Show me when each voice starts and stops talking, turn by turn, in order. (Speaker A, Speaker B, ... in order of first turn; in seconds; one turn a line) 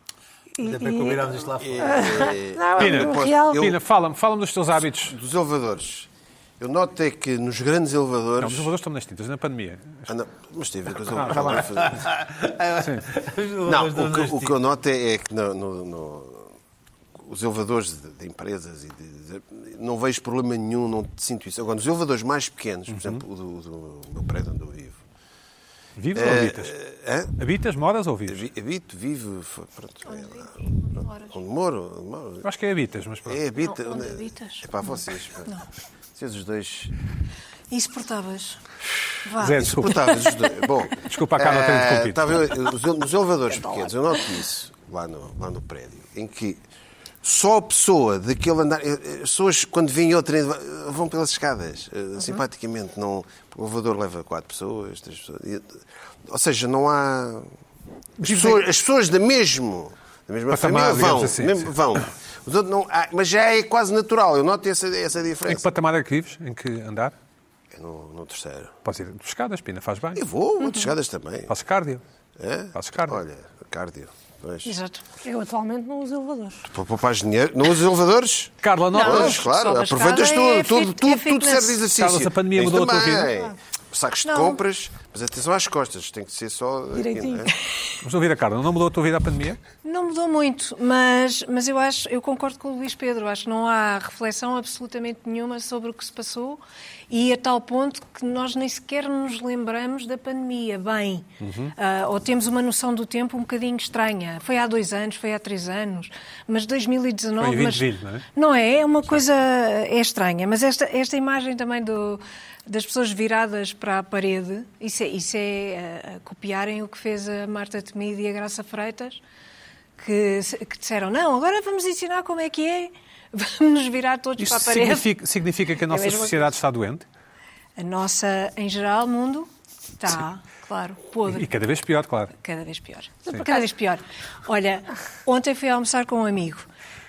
Speaker A: 0.6-1.2
Speaker B: 0.6-2.3
Speaker C: 1.6-3.8
Speaker A: 1.8-3.6
Speaker D: 2.8-5.2
Speaker C: 5.1-8.7
Speaker D: 8.4-10.1
Speaker C: 10.1-12.0
Speaker D: 11.1-11.9
Speaker B: 11.6-14.5
Speaker D: 12.8-13.1
Speaker C: 13.7-16.5
Speaker C: 17.2-25.0
Speaker D: 22.9-23.2
Speaker D: 26.0-26.8
Speaker C: 26.1-27.3
Speaker D: 27.3-28.4
Speaker C: 28.3-30.4
Speaker E: 30.1-31.4
Speaker C: 31.3-32.4
Speaker D: 32.4-33.4
Speaker C: 33.3-35.5
Speaker E: 33.6-35.6
Speaker C: 36.1-36.9
Speaker E: 37.7-38.6
Speaker E: 39.2-39.7
Speaker D: 39.4-40.3
Speaker C: 39.6-46.6
Speaker D: 40.9-42.5
Speaker E: 43.6-43.9
Speaker C: 47.2-57.5
Speaker C: 58.2-65.7
Speaker D: 58.2-58.6
Speaker D: 60.5-61.8
Speaker D: 65.5-67.1
Speaker C: 67.7-68.7
Speaker D: 68.8-70.2
Speaker C: 70.2-71.5
Speaker E: 70.6-70.9
Speaker D: 71.5-72.0
Speaker C: 72.4-74.7
Speaker D: 72.7-73.2
Speaker E: 74.6-75.0
Speaker A: 75.2-76.7
Speaker C: 76.7-87.5
Speaker D: 78.6-79.5
Speaker E: 78.9-81.8
Speaker D: 81.9-83.3
Speaker E: 84.2-84.6
Speaker A: 86.9-87.5
Speaker D: 88.0-89.6
Speaker E: 89.8-119.2
Speaker D: 101.4-101.7
Speaker D: 107.4-108.2
Speaker E: 120.0-125.1
Speaker D: 124.4-127.0
Speaker E: 125.9-126.5
Speaker E: 127.8-129.5
Speaker E: 130.0-131.5
Speaker D: 131.3-132.3
Speaker E: 132.4-136.7
Speaker A: 133.3-133.6